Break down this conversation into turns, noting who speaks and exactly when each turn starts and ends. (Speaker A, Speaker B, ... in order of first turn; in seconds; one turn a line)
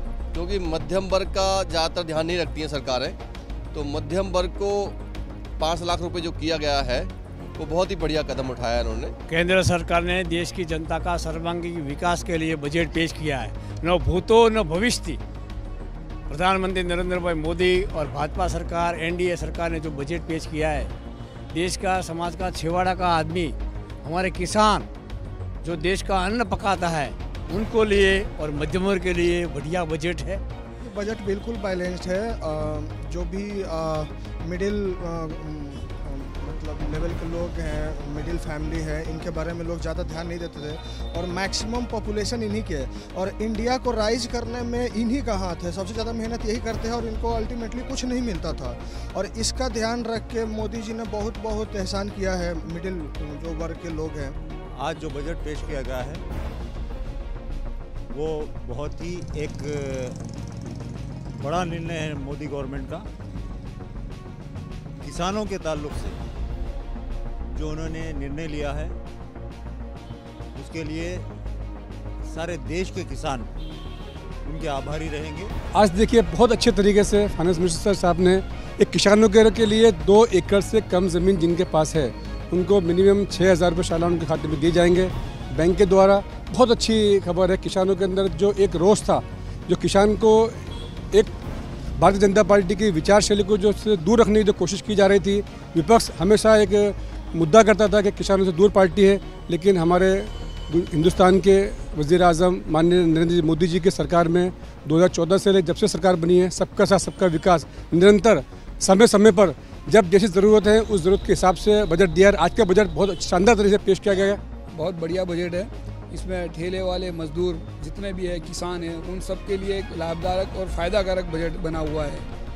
Speaker A: 0.3-3.2
Speaker A: 3.7-5.0
Speaker A: 5.6-9.1
Speaker B: 9.3-15.2
Speaker B: 16.3-20.9
Speaker B: 21.5-24.9
Speaker B: 25.6-30.4
Speaker C: 30.8-54.3
Speaker D: 54.7-56.2
Speaker D: 58.1-60.2
Speaker D: 61.3-63.1
Speaker D: 65.0-66.2
Speaker D: 67.5-69.0
Speaker D: 70.5-71.2
Speaker D: 72.2-73.5
Speaker D: 74.5-75.5
Speaker E: 75.7-91.3
Speaker E: 92.0-114.4
Speaker F: 114.7-122.2